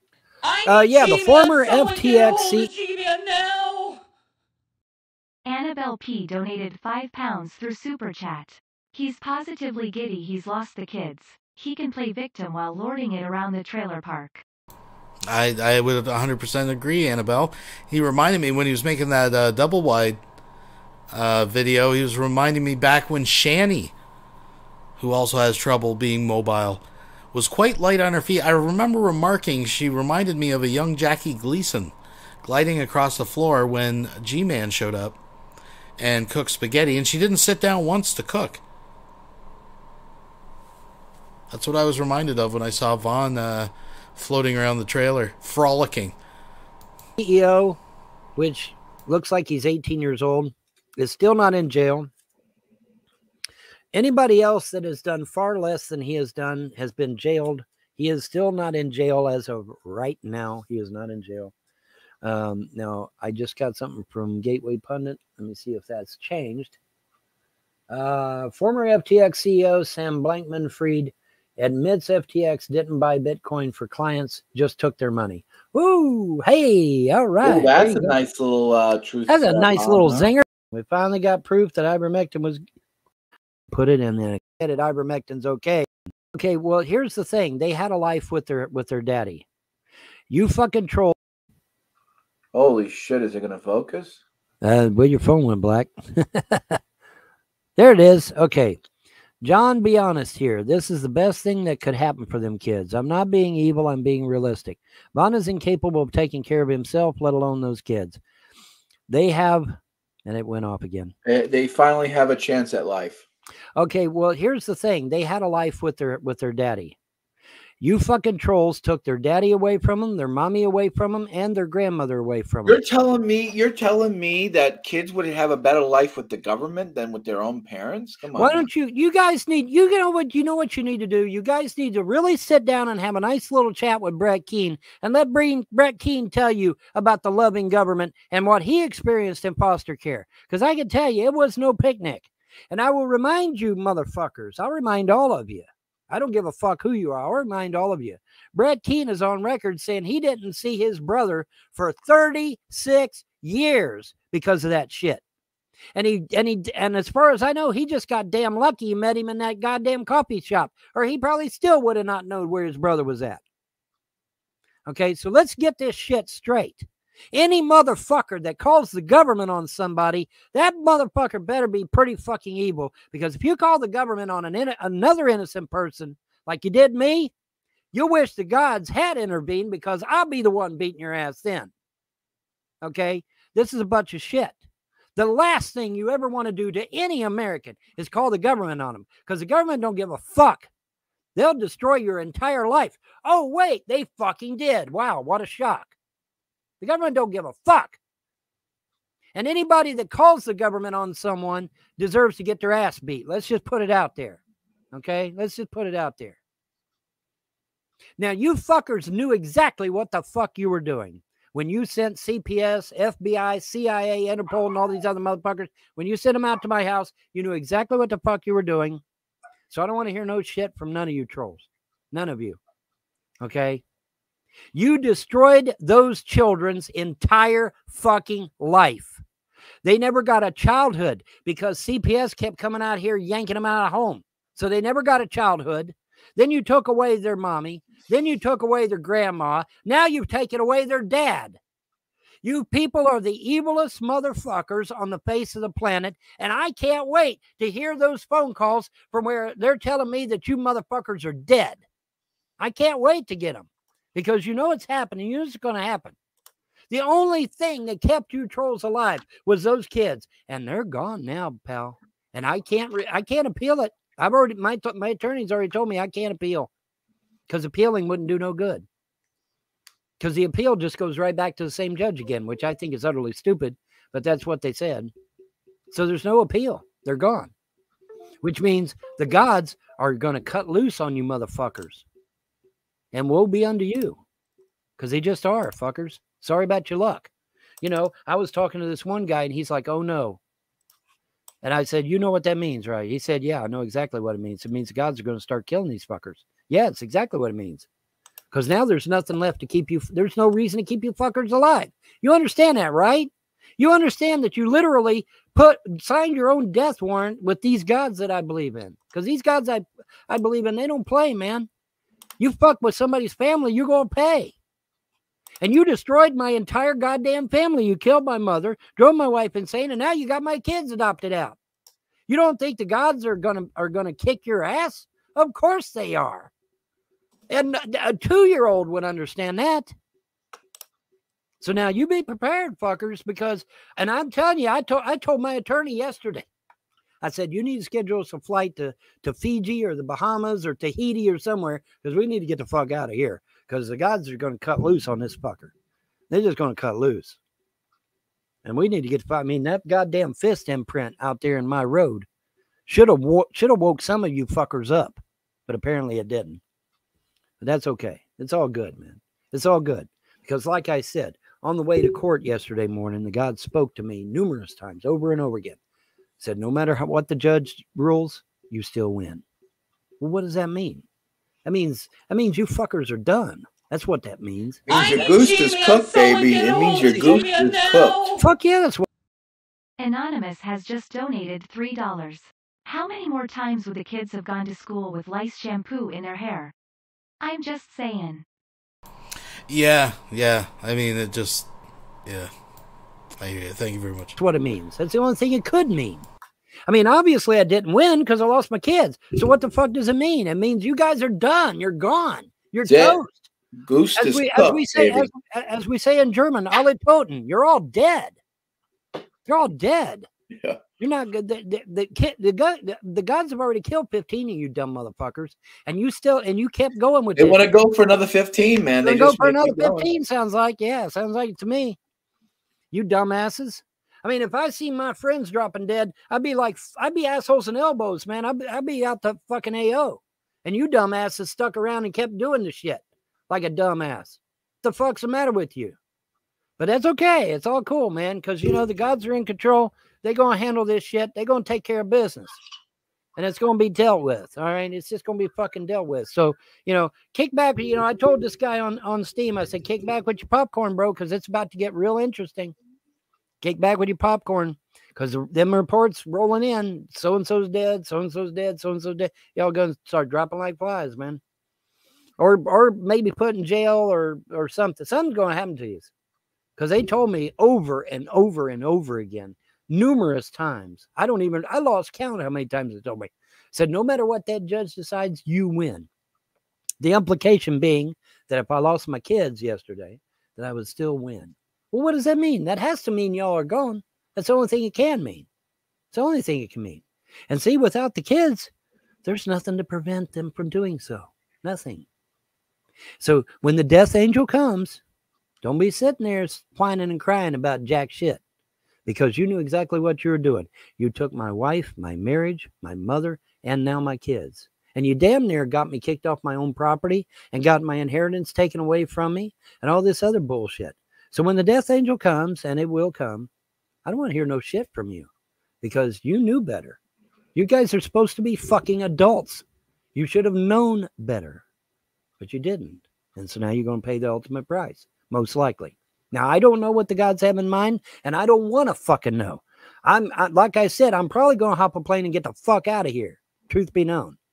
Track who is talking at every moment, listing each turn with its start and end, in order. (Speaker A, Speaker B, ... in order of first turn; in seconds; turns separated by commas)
Speaker A: 0.4-4.0, Speaker B: 0.7-2.7, Speaker C: 5.5-14.4, Speaker D: 15.3-20.2, Speaker D: 21.1-23.9, Speaker D: 25.0-35.2, Speaker D: 36.0-38.6, Speaker D: 41.5-46.1, Speaker B: 47.2-47.8, Speaker B: 48.4-52.1, Speaker B: 53.9-61.5, Speaker B: 62.2-66.8, Speaker B: 67.9-78.2, Speaker E: 77.4-80.3, Speaker B: 79.3-82.6, Speaker B: 83.7-89.5, Speaker B: 90.3-91.2, Speaker E: 92.5-94.2, Speaker B: 94.6-96.8, Speaker B: 97.8-98.8, Speaker B: 99.4-108.2, Speaker B: 109.1-111.1, Speaker E: 111.3-113.2, Speaker B: 113.8-117.0, Speaker B: 117.8-122.8, Speaker E: 122.7-128.7, Speaker B: 128.3-155.2, Speaker B: 155.9-163.4, Speaker B: 164.9-177.3, Speaker B: 177.9-181.7, Speaker B: 182.8-184.6, Speaker B: 185.2-190.7, Speaker B: 191.3-195.9, Speaker B: 196.8-198.0, Speaker B: 199.3-204.4, Speaker B: 204.9-206.4, Speaker B: 208.2-219.0, Speaker B: 219.7-222.6, Speaker B: 223.4-223.8, Speaker B: 224.7-229.2, Speaker B: 229.8-241.6, Speaker B: 242.4-251.8, Speaker B: 252.6-256.2, Speaker B: 256.9-266.7, Speaker B: 267.5-268.9, Speaker B: 270.2-275.1, Speaker B: 275.9-277.5, Speaker B: 278.4-282.1, Speaker B: 283.1-284.2, Speaker B: 285.0-290.4, Speaker B: 291.6-297.9, Speaker B: 298.5-311.7, Speaker B: 312.4-314.6, Speaker B: 315.6-321.6, Speaker B: 322.3-326.5, Speaker B: 327.5-329.9, Speaker B: 331.6-336.5, Speaker B: 337.2-345.7, Speaker B: 346.3-347.4, Speaker B: 348.6-352.3, Speaker B: 352.9-356.6, Speaker B: 357.6-365.8, Speaker B: 366.4-369.4, Speaker B: 370.2-371.1, Speaker B: 371.6-374.9, Speaker E: 374.9-378.2, Speaker A: 374.9-378.4, Speaker B: 378.4-379.1, Speaker C: 380.0-386.7, Speaker C: 387.4-388.4, Speaker D: 389.7-391.7, Speaker D: 392.3-392.5, Speaker D: 393.4-394.4, Speaker B: 394.4-396.3, Speaker B: 396.9-403.5, Speaker E: 402.8-403.2, Speaker E: 403.8-405.3, Speaker B: 404.2-408.4, Speaker B: 409.5-410.3, Speaker B: 411.0-417.7, Speaker E: 417.4-420.1, Speaker B: 419.0-422.0, Speaker B: 422.9-436.0, Speaker B: 436.8-442.6, Speaker B: 443.4-452.8, Speaker B: 453.6-461.4, Speaker B: 462.4-466.1, Speaker B: 466.8-476.1, Speaker B: 477.0-485.5, Speaker B: 486.1-488.7, Speaker B: 489.2-492.1, Speaker B: 493.2-495.0, Speaker B: 495.6-498.4, Speaker B: 499.1-513.5, Speaker B: 514.0-515.3, Speaker B: 515.8-517.0, Speaker B: 517.5-521.6, Speaker B: 522.4-534.4